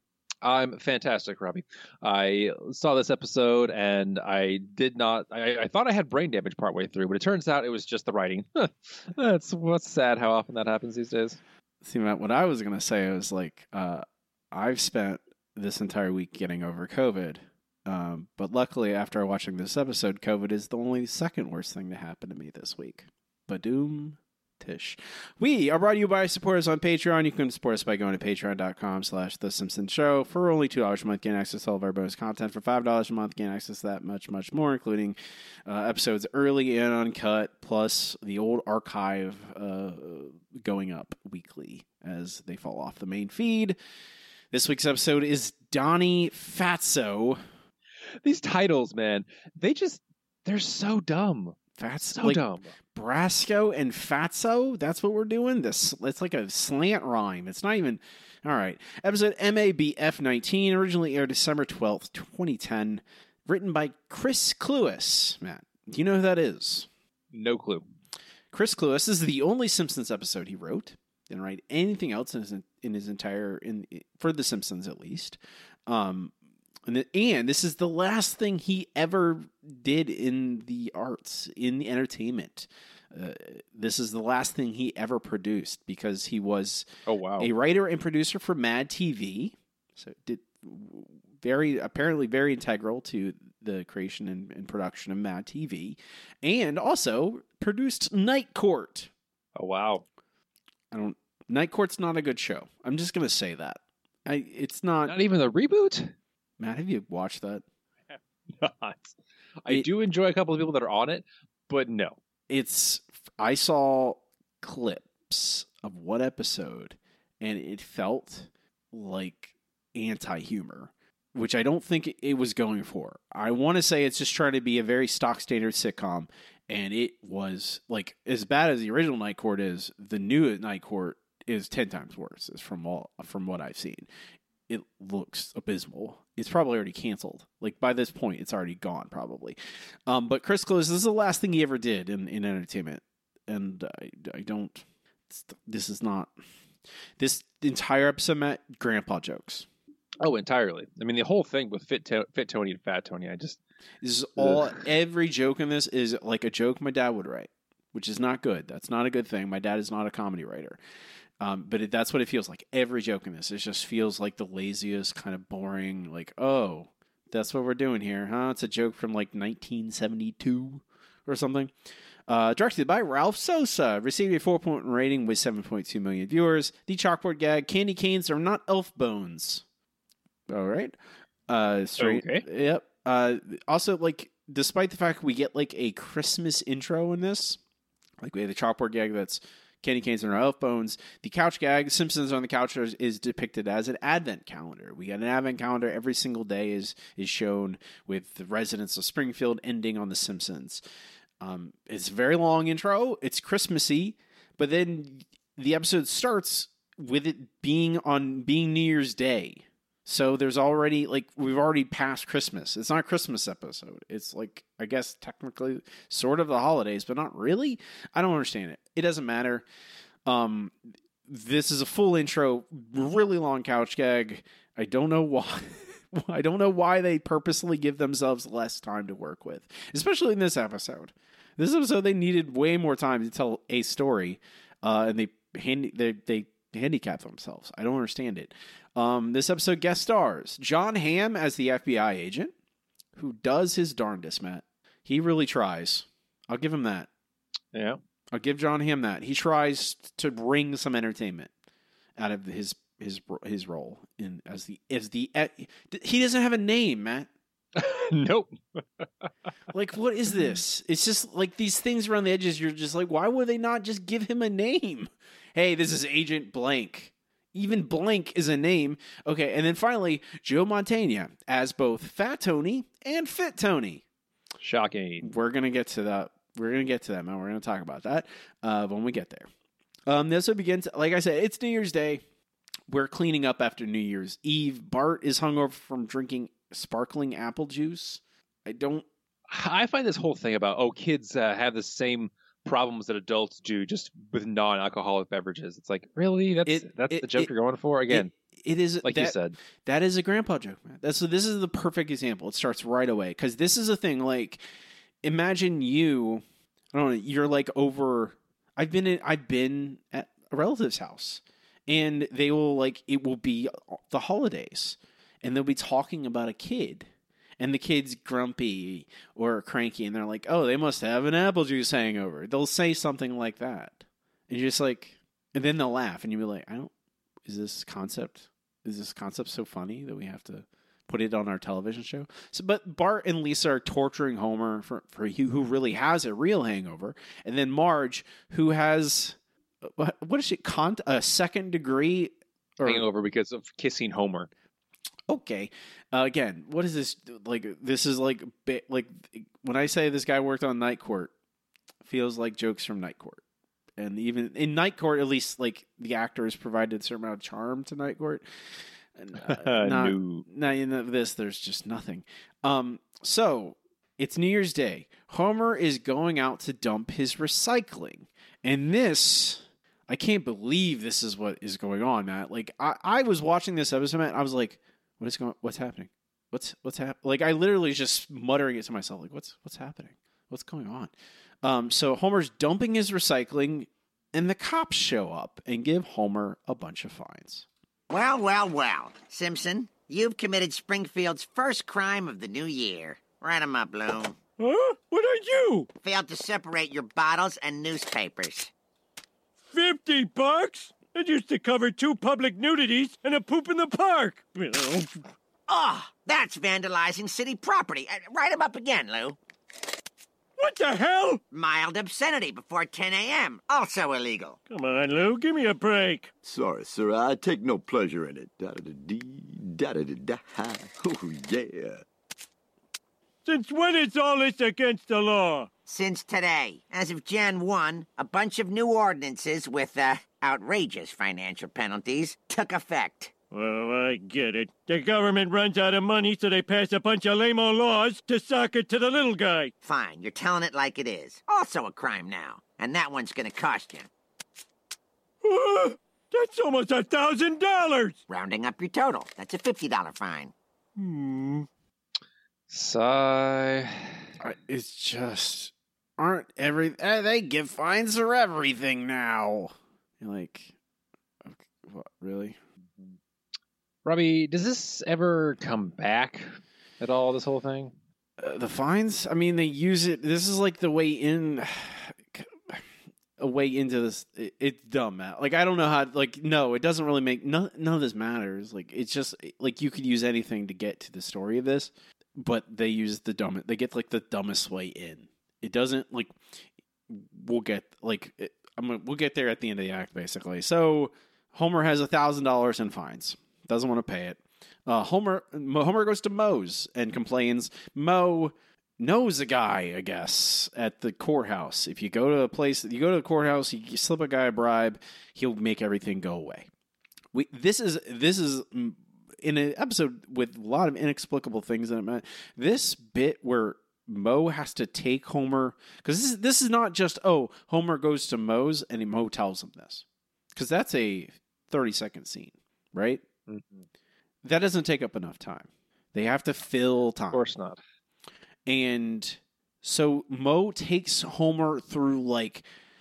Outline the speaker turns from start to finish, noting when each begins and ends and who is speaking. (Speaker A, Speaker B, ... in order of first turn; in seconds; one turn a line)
Speaker A: 0.4-11.4
Speaker B: 11.8-43.8
Speaker B: 44.5-47.5
Speaker A: 48.2-51.6
Speaker B: 51.8-66.9
Speaker A: 52.1-52.7
Speaker A: 67.3-67.8
Speaker B: 68.5-76.3
Speaker B: 76.8-86.9
Speaker A: 87.1-87.5
Speaker B: 87.4-99.1
Speaker A: 99.5-100.0
Speaker B: 100.9-105.1
Speaker A: 105.0-106.1
Speaker B: 106.6-107.6
Speaker A: 108.1-112.2
Speaker B: 112.5-134.1
Speaker B: 134.7-146.3
Speaker B: 147.2-149.7
Speaker A: 150.2-153.6
Speaker B: 154.0-160.8
Speaker A: 154.4-154.8
Speaker B: 161.4-171.7
Speaker B: 172.3-179.6
Speaker B: 180.5-181.0
Speaker B: 181.5-187.6
Speaker A: 182.0-182.4
Speaker B: 188.2-200.8
Speaker B: 201.4-219.7
Speaker B: 220.2-242.5
Speaker B: 243.2-247.1
Speaker A: 247.7-248.0
Speaker B: 248.3-251.5
Speaker B: 252.2-257.3
Speaker A: 257.8-259.3
Speaker B: 259.7-274.0
Speaker A: 274.6-275.3
Speaker B: 275.2-279.5
Speaker B: 280.1-282.2
Speaker B: 282.9-289.1
Speaker A: 289.5-298.3
Speaker B: 296.6-297.5
Speaker B: 298.1-304.6
Speaker A: 299.0-299.6
Speaker B: 305.2-317.1
Speaker B: 317.6-326.9
Speaker B: 327.4-343.0
Speaker A: 342.8-344.5
Speaker B: 345.3-351.3
Speaker B: 352.0-353.4
Speaker B: 354.0-358.4
Speaker B: 359.1-387.6
Speaker A: 359.4-360.4
Speaker C: 388.1-394.4
Speaker D: 394.6-395.9
Speaker C: 396.0-398.7
Speaker D: 399.7-405.1
Speaker C: 405.7-409.4
Speaker D: 410.6-411.4
Speaker C: 411.5-414.6
Speaker D: 414.7-416.3
Speaker E: 416.4-422.0
Speaker D: 423.4-425.7
Speaker C: 425.9-433.3
Speaker D: 433.5-439.7
Speaker C: 439.8-444.1
Speaker D: 445.4-448.2
Speaker C: 448.3-450.5
Speaker D: 451.0-451.6
Speaker A: 452.7-454.3
Speaker B: 454.4-460.7
Speaker B: 461.4-462.6
Speaker A: 464.0-467.9
Speaker B: 468.4-472.8
Speaker B: 473.4-486.4
Speaker B: 487.1-506.7
Speaker B: 507.3-523.2
Speaker A: 523.5-523.8
Speaker B: 524.4-527.4
Speaker A: 527.3-527.8
Speaker B: 528.6-532.6